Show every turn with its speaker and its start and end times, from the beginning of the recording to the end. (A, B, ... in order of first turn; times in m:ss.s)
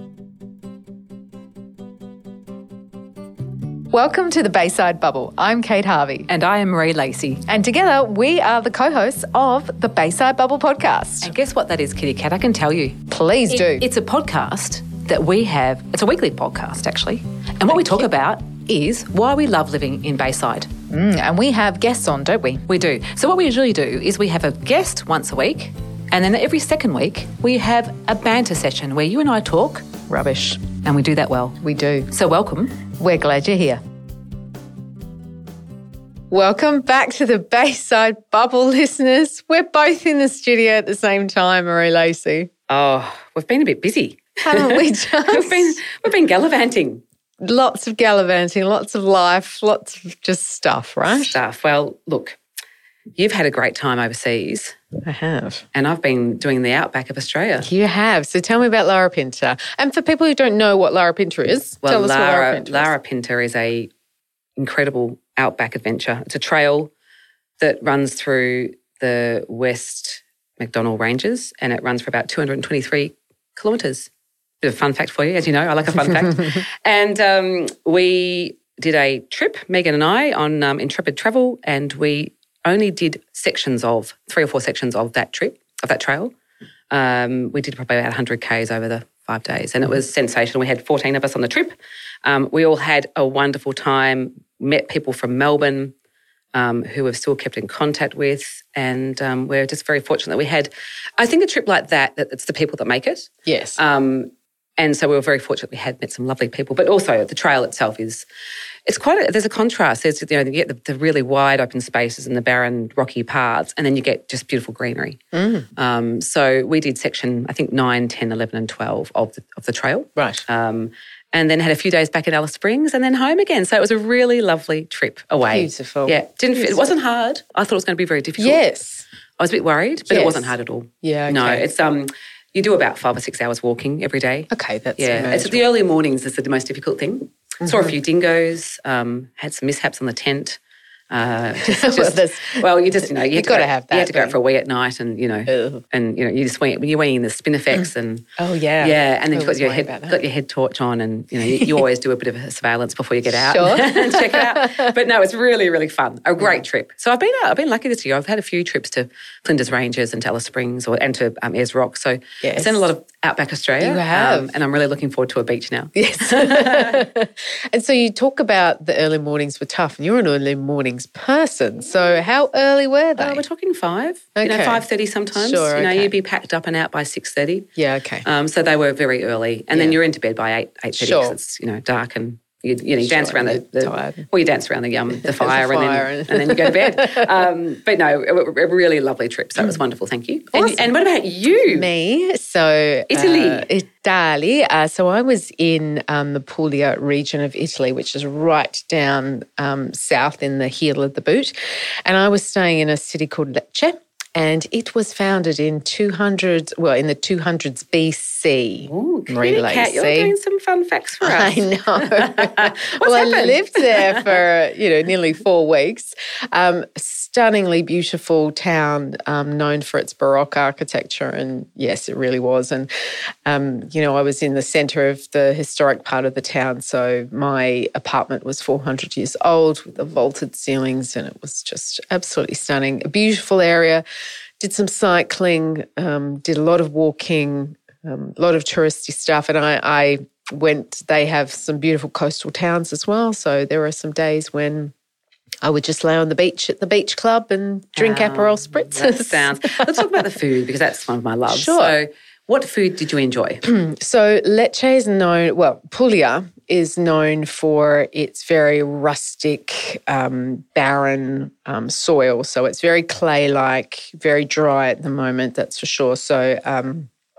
0:03.9-0:06.3 A
0:06.3-0:07.4 B
0:07.5-0:11.3 A
0:11.2-0:20.7 B
0:13.1-0:13.9 A
0:20.9-0:22.6 A
0:22.7-0:30.1 B
0:30.1-0:30.6 A
0:30.6-0:32.9 B
0:31.6-0:32.1 A
0:32.9-0:33.8 A
0:36.3-0:42.5 A
0:42.7-0:47.0 B
0:44.4-0:45.8 A
0:47.4-0:51.4 A
0:51.1-0:52.4 B
0:53.2-0:54.8 B
0:55.0-0:55.6 A
0:55.7-0:57.7 B
0:57.6-1:02.9 A
1:01.8-1:03.9 B
1:04.6-1:06.9 B
1:07.6-1:14.1 B
1:14.6-1:26.3 B
1:26.9-1:35.9 B
1:36.5-1:48.3 B
1:43.5-1:43.8 A
1:48.9-1:55.2 B
1:55.3-1:55.7 A
1:55.8-2:08.6 B
2:00.2-2:00.4 A
2:05.5-2:06.9 A
2:08.4-2:09.0 A
2:09.4-2:20.6 B
2:10.1-2:11.7 A
2:14.5-2:15.6 A
2:21.1-2:28.2 B
2:21.6-2:24.4 A
2:25.5-2:25.8 A
2:28.4-2:30.2 A
2:28.8-2:47.0 B
2:31.4-2:31.8 A
2:33.3-2:34.9 A
2:42.4-2:42.9 A
2:43.8-2:44.5 A
2:46.0-2:53.4 A
2:53.2-2:57.7 B
2:54.4-2:56.2 A
2:57.8-2:58.2 A
2:58.2-3:11.9 B
2:59.7-3:00.0 A
3:01.0-3:01.4 A
3:03.0-3:04.3 A
3:05.2-3:07.3 A
3:10.5-3:10.9 A
3:11.5-3:30.3 A
3:13.1-3:13.7 B
3:28.9-3:34.4 B
3:31.2-3:42.9 A
3:43.5-3:54.0 A
3:54.6-4:04.9 A
4:05.6-4:10.2 A
4:08.0-4:13.6 B
4:11.5-4:12.0 A
4:13.6-4:27.1 A